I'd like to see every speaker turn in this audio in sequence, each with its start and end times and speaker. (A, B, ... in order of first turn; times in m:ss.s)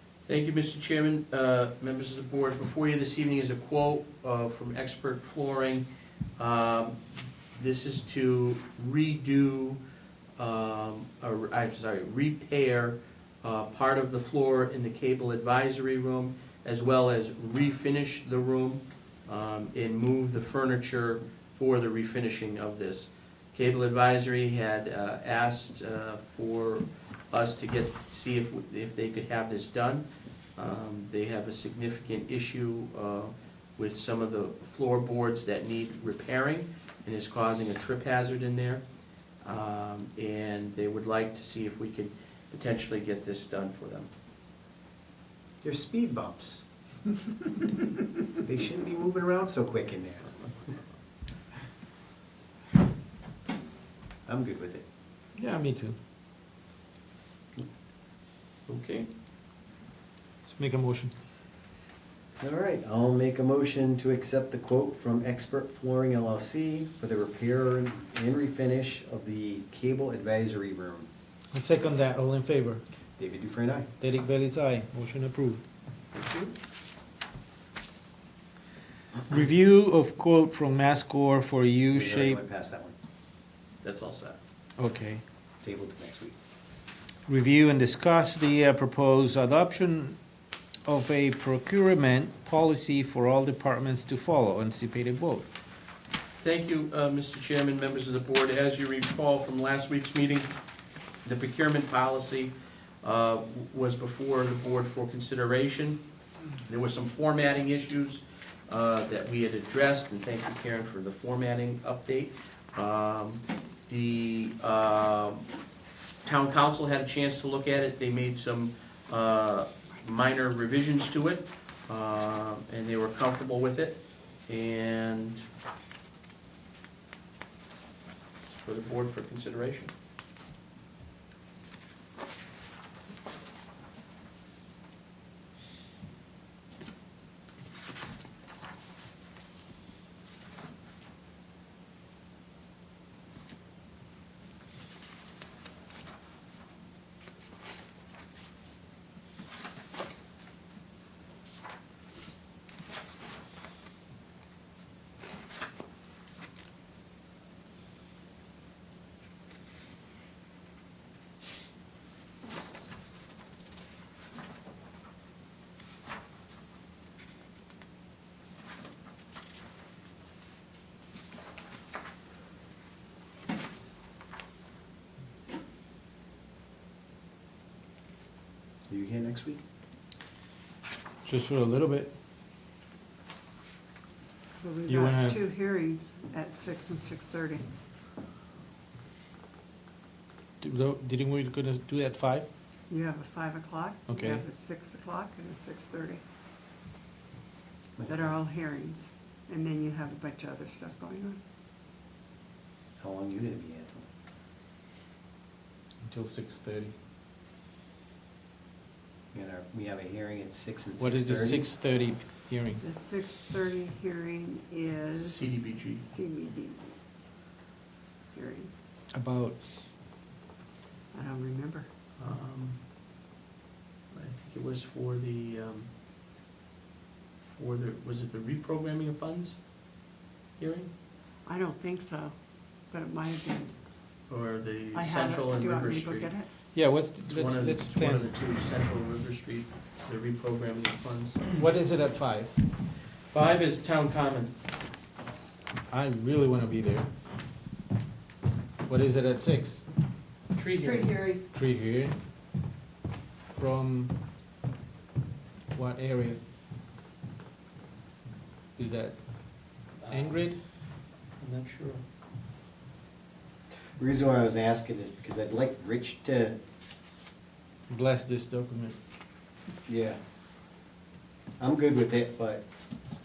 0:00.3-0:05.8 A
0:06.4-0:07.0 A
0:07.5-0:09.8 A
0:10.4-0:30.0 A
0:30.6-0:38.8 A
0:39.4-0:44.1 A
0:45.6-0:46.6 B
0:48.4-0:50.4 B
0:54.2-0:54.8 B
0:55.4-0:56.0 C
0:58.7-0:59.1 A
1:00.4-1:01.1 C
1:02.4-1:11.1 B
1:11.5-1:12.8 C
1:13.2-1:13.9 B
1:14.0-1:15.6 C
1:16.1-1:16.6 A
1:19.3-1:22.4 C
1:21.9-1:22.9 B
1:23.8-1:24.4 A
1:24.8-1:25.2 C
1:25.6-1:26.3 B
1:27.3-1:30.2 C
1:30.8-1:35.5 C
1:36.4-1:40.5 A
1:41.2-1:46.0 A
1:46.6-1:55.4 A
1:56.2-2:05.4 A
2:08.5-2:09.9 A
2:58.9-2:59.6 B
3:01.2-3:02.1 C
3:04.6-3:07.6 D
3:04.9-3:05.4 C
3:10.6-3:12.5 C
3:12.9-3:16.2 D
3:14.1-3:14.4 C
3:18.0-3:18.3 B
3:18.1-3:21.4 D
3:23.0-3:24.1 B
3:26.0-3:26.9 C
3:29.3-3:31.7 B
3:31.0-3:32.8 C
3:32.8-3:35.5 D
3:35.2-3:36.0 A
3:36.0-3:36.9 D
3:38.3-3:38.7 D
3:39.1-3:39.6 C
3:41.1-3:41.9 D
3:42.2-3:42.8 A
3:44.1-3:45.9 A
3:47.4-3:50.9 A
3:51.4-3:52.3 D
3:52.9-3:53.7 D
3:54.3-3:56.3 A
3:54.9-3:56.5 D
3:56.7-3:58.3 C
3:57.2-4:01.5 A
4:01.5-4:02.5 C
4:03.3-4:04.5 A
4:05.9-4:07.1 C
4:08.8-4:09.8 C
4:10.5-4:11.1 A
4:10.8-4:11.4 D
4:11.5-4:12.1 C
4:13.5-4:14.1 C
4:15.7-4:16.4 C
4:18.8-4:19.2 C
4:20.0-4:20.4 A
4:20.1-4:20.6 C
4:21.4-4:22.0 A
4:24.0-4:26.6 B
4:27.9-4:29.0 C
4:29.8-4:30.2 B
4:31.6-4:32.6 B